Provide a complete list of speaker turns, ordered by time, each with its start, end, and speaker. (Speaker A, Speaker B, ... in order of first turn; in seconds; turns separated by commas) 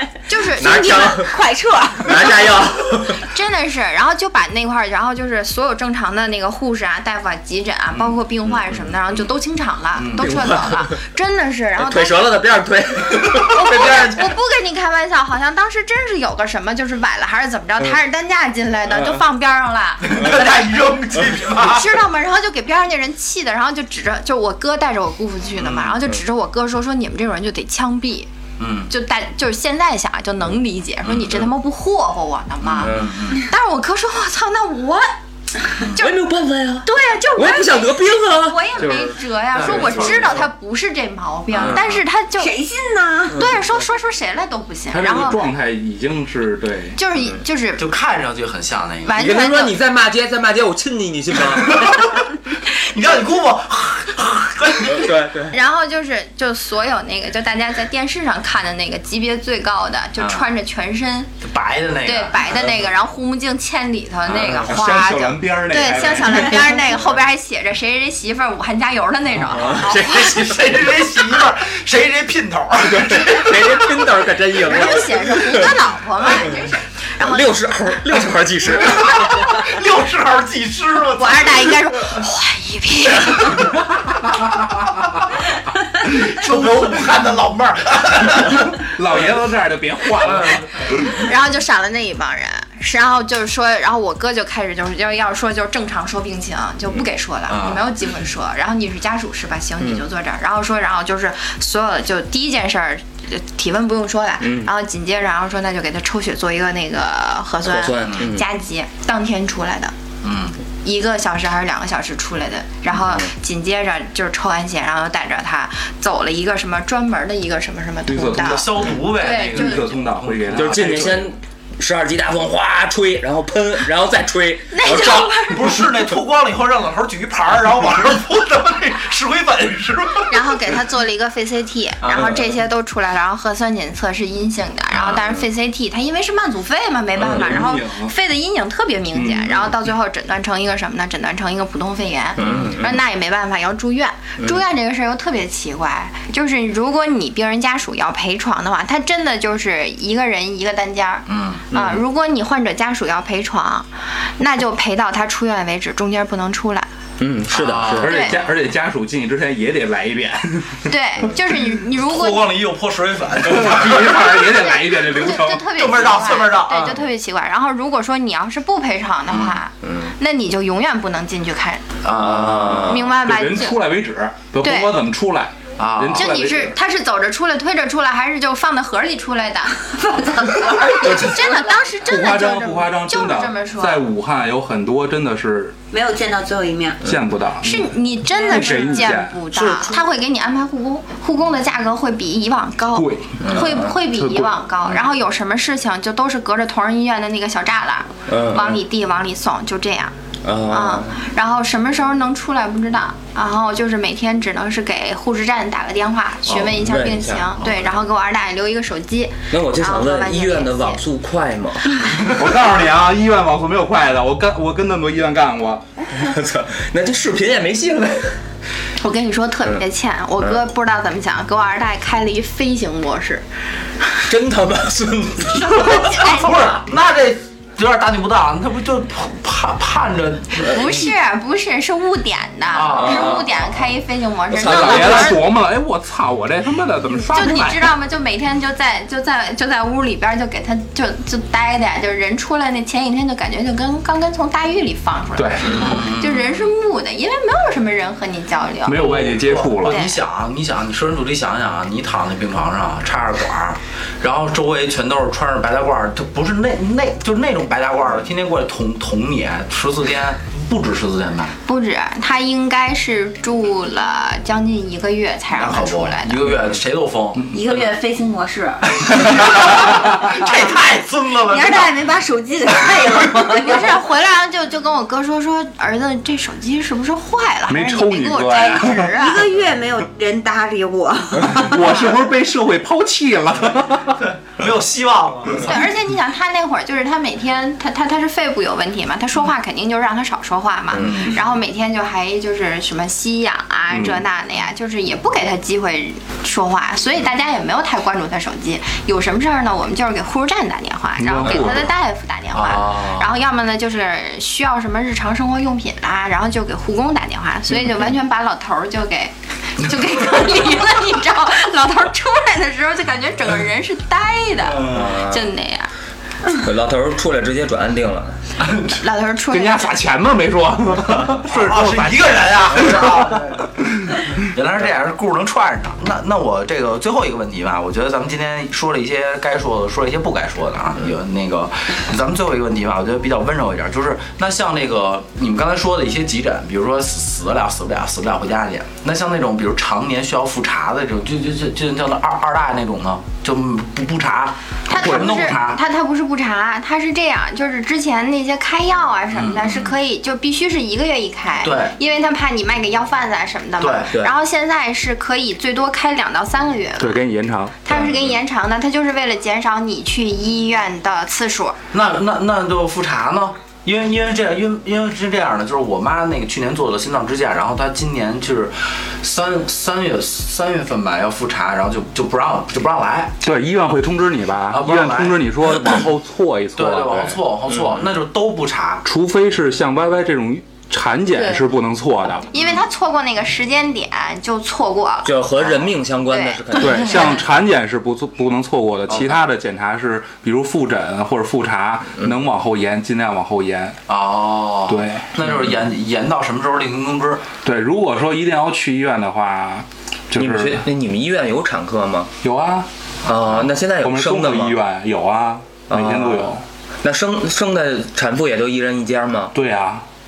Speaker A: 0.3-1.2, Speaker B: 0.6-1.4, Speaker C: 0.6-2.5, Speaker B: 2.0-3.3, Speaker A: 3.2-12.4, Speaker B: 8.5-8.9, Speaker D: 10.0-10.5, Speaker B: 10.2-11.0, Speaker B: 11.8-14.3, Speaker A: 13.3-20.4, Speaker D: 20.0-21.9, Speaker A: 21.5-28.3, Speaker D: 25.6-26.0, Speaker D: 28.6-28.9, Speaker A: 28.9-36.1, Speaker D: 31.1-31.4, Speaker D: 32.6-33.5, Speaker B: 32.8-33.2, Speaker B: 36.0-39.1, Speaker A: 36.8-42.5, Speaker D: 39.5-40.4, Speaker B: 39.7-40.0, Speaker D: 41.5-42.0, Speaker B: 41.6-41.9, Speaker C: 42.4-43.5, Speaker B: 43.3-43.6, Speaker A: 43.3-45.4, Speaker E: 44.9-47.0, Speaker A: 47.0-47.9, Speaker D: 47.8-49.2, Speaker A: 49.0-49.8, Speaker B: 49.2-52.1, Speaker D: 51.6-55.4, Speaker B: 54.9-55.6, Speaker A: 55.5-61.3, Speaker D: 60.2-60.5, Speaker D: 61.4-62.4, Speaker A: 62.0-70.5, Speaker D: 64.3-64.6, Speaker E: 64.5-66.8, Speaker B: 69.6-70.7, Speaker D: 69.6-74.1, Speaker B: 72.8-75.8, Speaker A: 74.6-78.0, Speaker B: 77.2-79.7, Speaker D: 78.8-81.7, Speaker A: 81.2-83.8, Speaker D: 86.0-88.8, Speaker E: 88.5-91.0, Speaker D: 90.2-90.7, Speaker A: 91.0-109.9, Speaker D: 97.5-97.9, Speaker B: 104.4-104.7, Speaker B: 107.7-108.5, Speaker D: 110.2-110.6, Speaker A: 110.8-119.9, Speaker B: 113.0-113.3, Speaker E: 118.1-121.3, Speaker D: 118.4-121.1, Speaker B: 120.5-125.6, Speaker A: 124.7-125.9, Speaker D: 125.5-130.8, Speaker A: 130.3-156.9, Speaker D: 132.0-132.4, Speaker E: 137.2-138.1, Speaker E: 139.1-139.7, Speaker B: 142.4-143.0, Speaker D: 151.3-151.7, Speaker B: 151.7-152.0, Speaker B: 157.2-158.3, Speaker D: 157.5-158.3, Speaker E: 158.0-160.9, Speaker A: 158.1-158.4, Speaker A: 160.9-162.5, Speaker D: 161.9-164.4, Speaker E: 163.4-165.7, Speaker A: 164.1-171.8, Speaker D: 165.7-167.0, Speaker D: 169.3-169.6, Speaker B: 169.8-170.1, Speaker D: 172.0-173.1, Speaker B: 172.2-173.0, Speaker A: 172.8-173.8, Speaker E: 173.2-176.8, Speaker A: 174.6-174.9, Speaker D: 175.8-176.3, Speaker A: 176.1-184.0, Speaker C: 180.1-181.7, Speaker E: 182.0-185.8, Speaker C: 185.9-187.0, Speaker E: 187.0-189.4, Speaker A: 187.6-200.2, Speaker C: 188.6-188.9, Speaker B: 189.6-190.0, Speaker E: 192.9-194.5, Speaker B: 193.4-194.0, Speaker B: 198.3-198.8, Speaker B: 200.4-201.2, Speaker A: 200.7-211.0, Speaker B: 206.5-207.5, Speaker B: 209.5-212.3, Speaker E: 212.3-215.9, Speaker B: 216.1-218.4, Speaker A: 219.0-223.4, Speaker B: 224.3-226.6, Speaker A: 225.5-226.8, Speaker D: 225.9-230.9, Speaker A: 230.6-235.4, Speaker B: 230.6-231.0, Speaker D: 232.7-233.6, Speaker B: 232.9-233.6, Speaker B: 234.5-235.4, Speaker E: 234.6-237.9, Speaker A: 237.3-249.2, Speaker E: 245.4-245.9, Speaker D: 245.7-246.7, Speaker E: 248.8-250.0, Speaker D: 249.0-261.6, Speaker A: 249.8-250.2, Speaker A: 261.6-266.4, Speaker D: 265.6-267.6, Speaker C: 267.5-270.7, Speaker D: 269.0-272.0, Speaker E: 269.9-270.2, Speaker C: 271.5-274.0, Speaker A: 273.6-279.5, Speaker E: 277.7-279.1, Speaker C: 279.1-282.1, Speaker E: 281.4-284.3, Speaker D: 284.4-285.7, Speaker A: 285.6-315.9, Speaker D: 290.9-291.4, Speaker B: 290.9-291.2, Speaker E: 293.9-294.2, Speaker E: 301.2-301.9, Speaker D: 302.5-303.3, Speaker D: 314.7-315.1, Speaker B: 314.9-315.5, Speaker B: 316.5-318.4, Speaker A: 318.9-319.9, Speaker E: 319.5-324.4, Speaker D: 321.2-323.7, Speaker D: 324.4-345.8, Speaker A: 344.9-357.2, Speaker E: 345.0-345.3, Speaker D: 349.3-349.9, Speaker D: 351.6-352.0, Speaker D: 353.8-354.1, Speaker E: 357.0-357.8, Speaker A: 357.9-361.8, Speaker D: 357.9-358.3, Speaker D: 361.9-373.4, Speaker E: 373.4-377.4, Speaker D: 374.7-375.4, Speaker D: 376.8-379.1, Speaker E: 379.1-382.5, Speaker A: 382.5-385.3, Speaker B: 385.2-387.4, Speaker A: 386.3-387.0, Speaker E: 386.8-394.0, Speaker D: 394.1-397.5, Speaker E: 394.9-395.5, Speaker E: 397.6-400.8, Speaker B: 400.4-402.3, Speaker E: 402.4-402.9, Speaker B: 403.2-404.8, Speaker E: 404.0-406.6, Speaker B: 405.9-409.6, Speaker E: 409.6-410.1